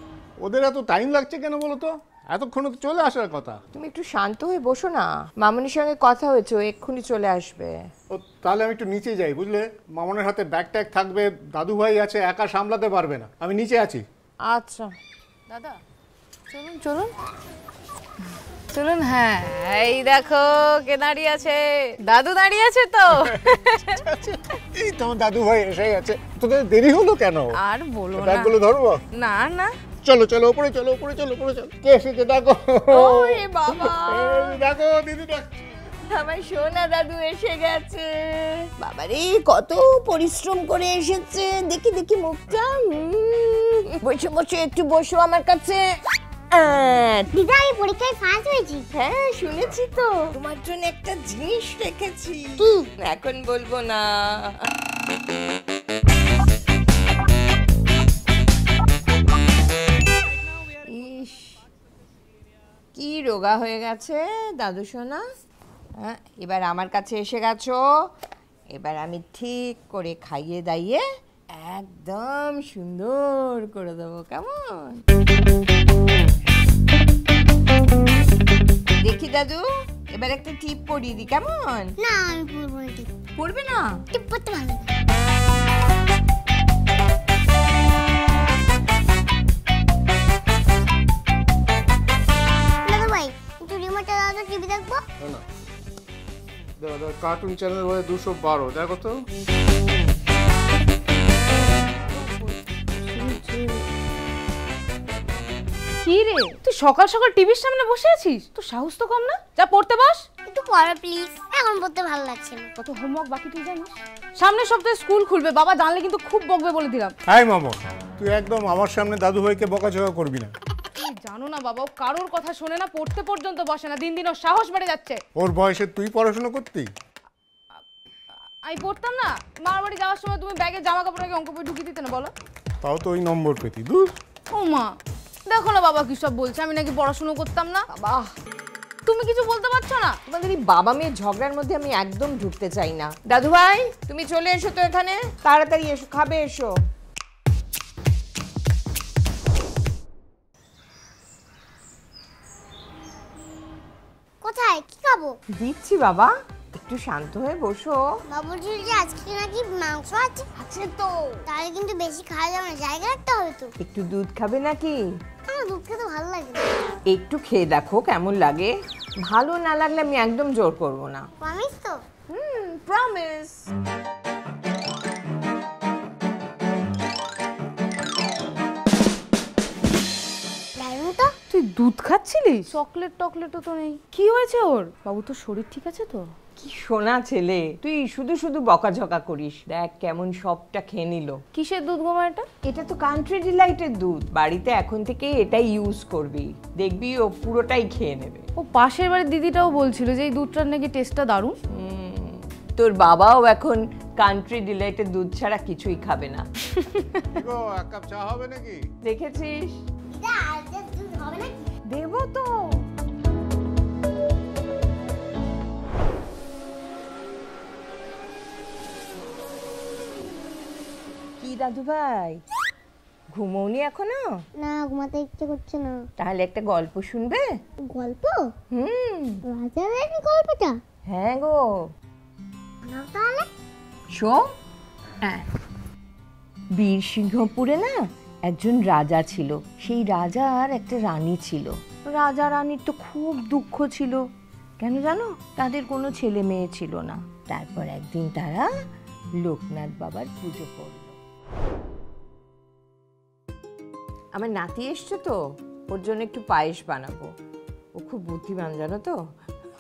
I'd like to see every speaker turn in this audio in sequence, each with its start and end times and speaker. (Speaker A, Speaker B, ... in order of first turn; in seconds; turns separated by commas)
Speaker A: 0.4-3.6, Speaker B: 3.7-7.8, Speaker A: 8.1-14.0, Speaker B: 14.4-14.9, Speaker C: 15.5-15.8, Speaker C: 16.5-17.1, Speaker C: 18.7-24.0, Speaker A: 23.1-27.6, Speaker C: 27.6-28.6, Speaker A: 28.2-29.0, Speaker C: 29.1-29.7, Speaker A: 30.0-35.6, Speaker B: 32.9-34.6, Speaker B: 36.0-45.9, Speaker B: 46.5-47.3, Speaker D: 47.3-48.9, Speaker B: 48.9-54.6, Speaker B: 60.8-61.6, Speaker B: 62.9-65.2, Speaker B: 66.0-67.9, Speaker B: 68.7-75.0, Speaker B: 79.0-81.9, Speaker D: 82.0-83.1, Speaker B: 83.4-84.0, Speaker D: 84.1-84.8, Speaker D: 92.8-95.0, Speaker A: 96.8-99.2, Speaker C: 101.8-103.8, Speaker C: 106.0-110.2, Speaker D: 110.5-112.7, Speaker C: 112.8-117.1, Speaker A: 117.2-120.5, Speaker C: 120.9-125.2, Speaker A: 125.3-126.9, Speaker C: 128.6-132.3, Speaker A: 132.8-134.2, Speaker C: 134.5-134.9, Speaker C: 135.5-137.8, Speaker B: 137.9-138.3, Speaker C: 139.1-140.2, Speaker B: 140.3-146.7, Speaker D: 154.4-155.4, Speaker B: 155.6-158.0, Speaker D: 158.3-160.4, Speaker B: 160.6-161.5, Speaker D: 161.5-163.7, Speaker B: 163.8-165.0, Speaker D: 165.5-166.7, Speaker B: 167.1-171.3, Speaker D: 171.4-172.0, Speaker B: 172.3-173.7, Speaker D: 180.8-181.3, Speaker C: 181.5-186.3, Speaker B: 186.6-191.4, Speaker C: 191.5-192.5, Speaker B: 192.6-198.4, Speaker C: 198.6-201.6, Speaker B: 201.7-206.5, Speaker C: 206.8-207.2, Speaker A: 207.3-208.8, Speaker B: 209.0-209.8, Speaker D: 210.1-211.7, Speaker B: 211.9-212.7, Speaker B: 221.4-222.4, Speaker B: 223.3-224.3, Speaker D: 224.6-226.0, Speaker B: 226.2-227.5, Speaker D: 227.9-228.5, Speaker B: 228.7-229.4, Speaker D: 229.5-230.8, Speaker B: 231.1-231.7, Speaker D: 232.8-233.5, Speaker B: 234.1-234.4, Speaker B: 236.8-244.2, Speaker B: 244.8-248.7, Speaker B: 249.4-251.2, Speaker B: 254.3-257.3, Speaker B: 257.9-259.2